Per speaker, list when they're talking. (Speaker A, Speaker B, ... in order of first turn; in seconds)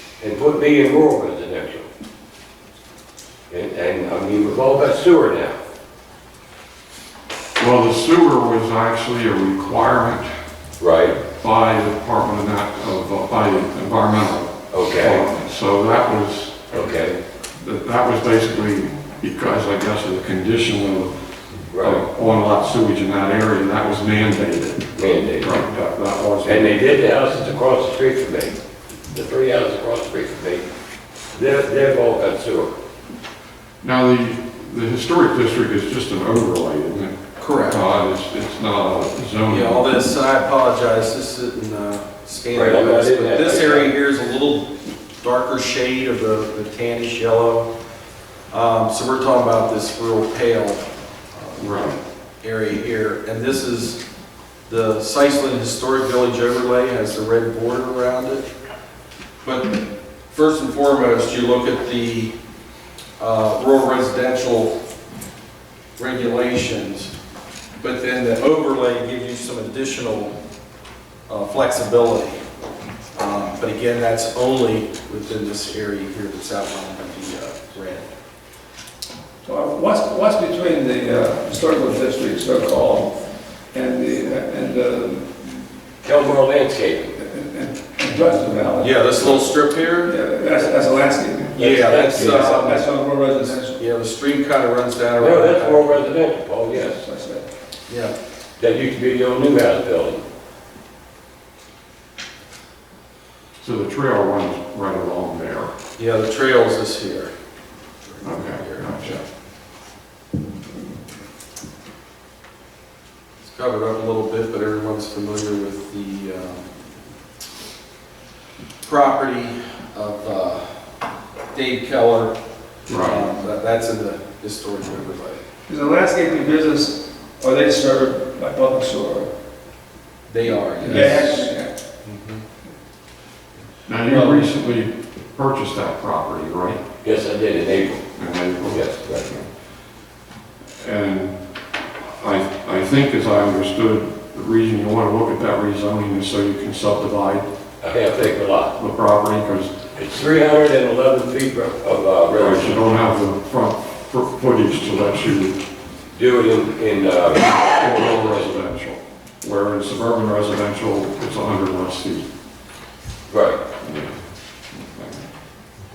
Speaker A: 0.2-1.9, 3.5-5.6, 10.8-11.2, 14.7-15.2, 16.7-17.2, 21.7-22.1, 25.0-25.5, 26.4-28.6, 29.1-30.6, 31.3-32.8, 42.5-43.9, 86.0-87.2, 91.6-92.7, 95.2-97.0, 98.6-100.2, 137.0-138.1, 138.7-139.3, 147.8-148.8, 149.9-152.8, 156.1-158.3, 163.3-163.6
Speaker B: 7.6-10.3, 11.3-16.7, 17.6-27.0, 33.8-39.8, 51.6-52.0, 103.6-105.7, 108.2-109.2, 122.9-123.2, 130.8-131.3, 133.9-136.8, 138.2-139.5, 140.8-141.4, 142.2-147.5, 148.8-149.7, 152.3-155.6, 157.5-162.3, 163.8-164.2, 164.7-165.2
Speaker C: 37.4-37.8, 39.5-47.7, 48.5-51.7, 52.4-54.0, 54.7-58.5, 59.4-62.3, 63.2-64.7, 66.0-67.1, 67.8-70.3, 71.3-72.4, 73.1-78.1, 88.8-90.1, 91.5-96.1, 97.9-98.2, 106.0-107.3, 108.1-109.2, 113.4-116.7, 118.8-120.6, 121.5-122.4, 122.9-125.4, 130.3-131.4, 132.0-132.4, 134.0-134.5
Speaker D: 79.4-85.4, 87.2-93.8, 96.7-97.5, 125.7-129.3, 130.8-131.8